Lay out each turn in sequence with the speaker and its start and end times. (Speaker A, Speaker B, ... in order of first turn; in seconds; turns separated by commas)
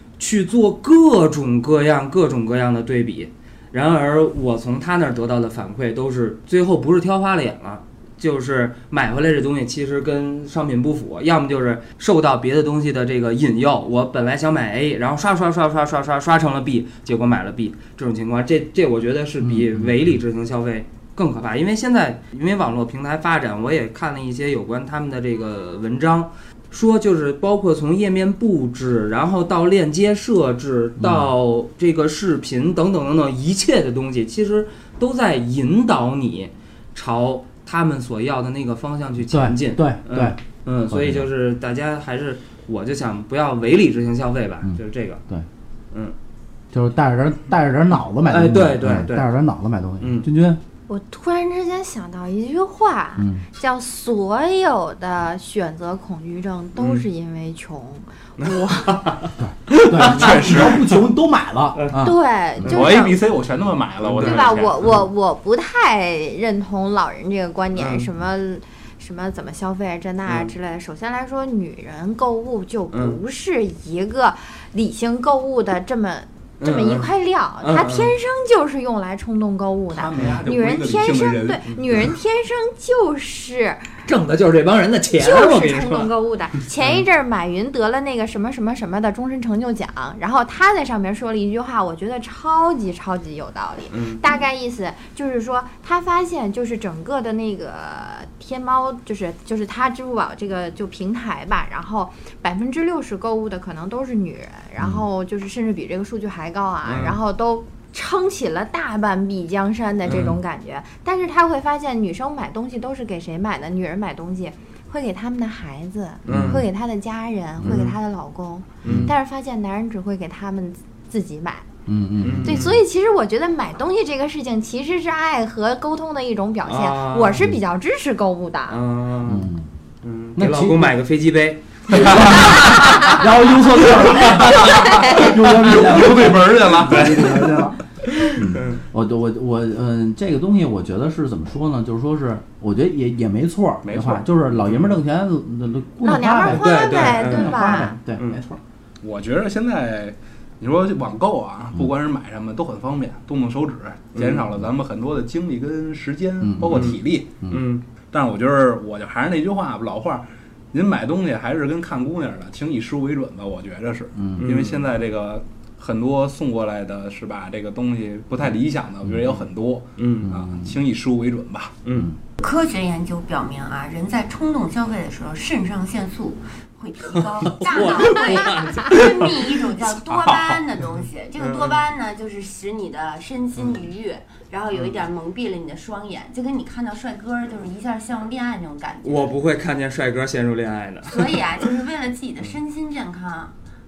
Speaker A: 0.2-45.2, Speaker B: 19.4-20.1, Speaker B: 31.0-31.3, Speaker B: 39.3-40.4, Speaker B: 40.9-41.3, Speaker B: 44.6-45.5, Speaker B: 46.7-50.6, Speaker A: 48.3-49.3, Speaker A: 50.0-50.2, Speaker C: 50.9-59.0, Speaker B: 53.2-53.4, Speaker A: 56.8-57.0, Speaker A: 58.4-60.9, Speaker B: 59.4-62.2, Speaker D: 60.1-60.9, Speaker C: 62.0-63.3, Speaker D: 62.6-64.9, Speaker C: 64.2-83.9, Speaker A: 64.2-65.0, Speaker A: 67.7-68.1, Speaker A: 70.2-70.5, Speaker A: 72.9-73.2, Speaker A: 76.6-78.1, Speaker D: 79.9-81.6, Speaker A: 84.0-86.1, Speaker C: 85.2-121.7, Speaker A: 86.8-87.0, Speaker A: 93.9-94.2, Speaker B: 104.8-105.0, Speaker A: 106.8-107.2, Speaker A: 110.0-110.4, Speaker B: 116.3-116.6, Speaker A: 116.3-116.7, Speaker B: 117.6-117.9, Speaker A: 117.6-117.9, Speaker A: 118.8-119.1, Speaker B: 118.8-119.1, Speaker B: 121.8-122.8, Speaker A: 122.2-122.8, Speaker C: 122.4-128.8, Speaker A: 126.6-127.4, Speaker A: 128.7-129.5, Speaker B: 129.2-129.7, Speaker A: 130.0-133.2, Speaker B: 130.4-130.9, Speaker B: 131.9-148.6, Speaker A: 133.8-135.0, Speaker D: 134.9-137.3, Speaker C: 135.0-135.3, Speaker A: 136.9-138.8, Speaker D: 143.8-144.3, Speaker C: 146.0-147.9, Speaker A: 146.4-148.4, Speaker D: 149.0-157.3, Speaker A: 154.2-154.4, Speaker B: 156.4-157.6, Speaker A: 156.6-157.0, Speaker A: 157.5-157.8, Speaker D: 158.1-171.8, Speaker B: 164.2-164.4, Speaker A: 164.4-164.8, Speaker B: 169.0-169.4, Speaker A: 170.0-170.3, Speaker B: 170.2-170.8, Speaker A: 171.8-172.1, Speaker E: 172.4-189.3, Speaker A: 177.4-179.5, Speaker D: 180.1-180.6, Speaker A: 181.4-181.8, Speaker A: 184.7-185.0, Speaker A: 189.0-191.7, Speaker E: 191.0-193.5